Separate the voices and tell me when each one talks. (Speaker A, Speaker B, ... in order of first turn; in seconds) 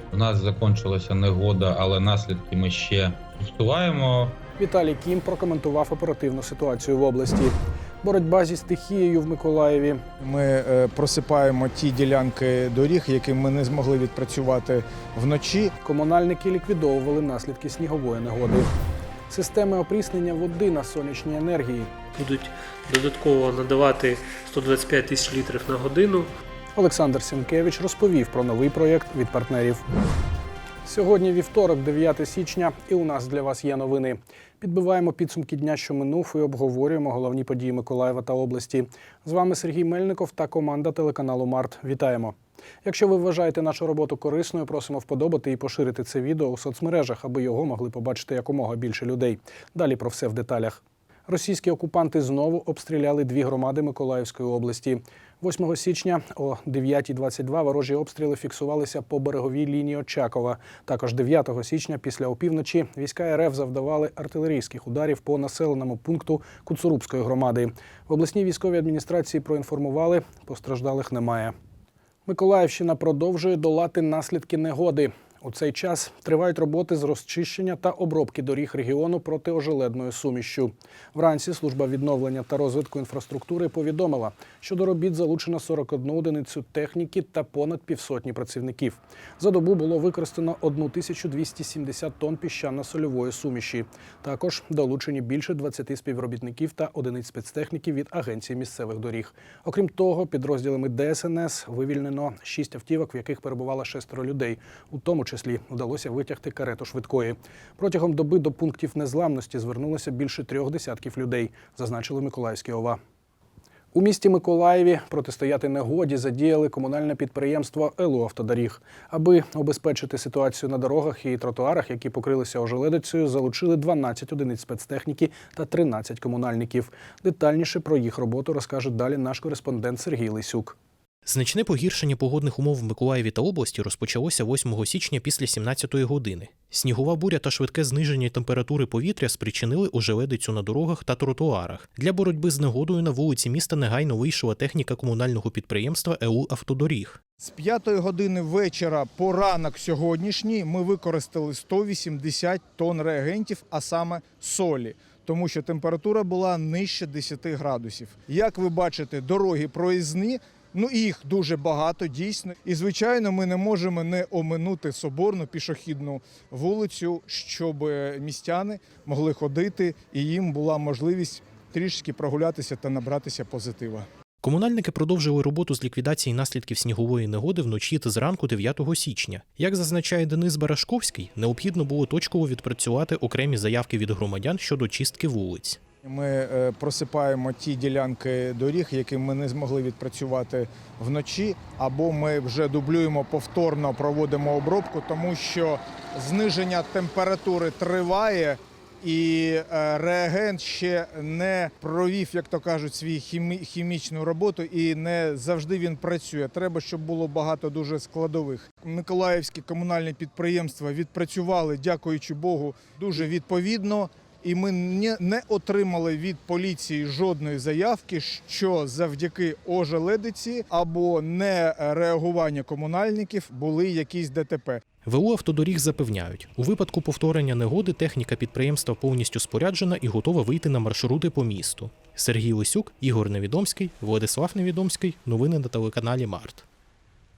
Speaker A: 0.1-4.4
Speaker B: 4.6-10.0, 15.8-18.7, 19.3-21.9, 26.8-29.8, 30.8-71.5, 72.2-113.0, 113.9-130.8
Speaker C: 10.2-15.7, 147.4-174.1, 186.0-224.8
Speaker D: 22.1-26.3
Speaker E: 131.2-147.2, 174.4-185.8, 225.0-236.7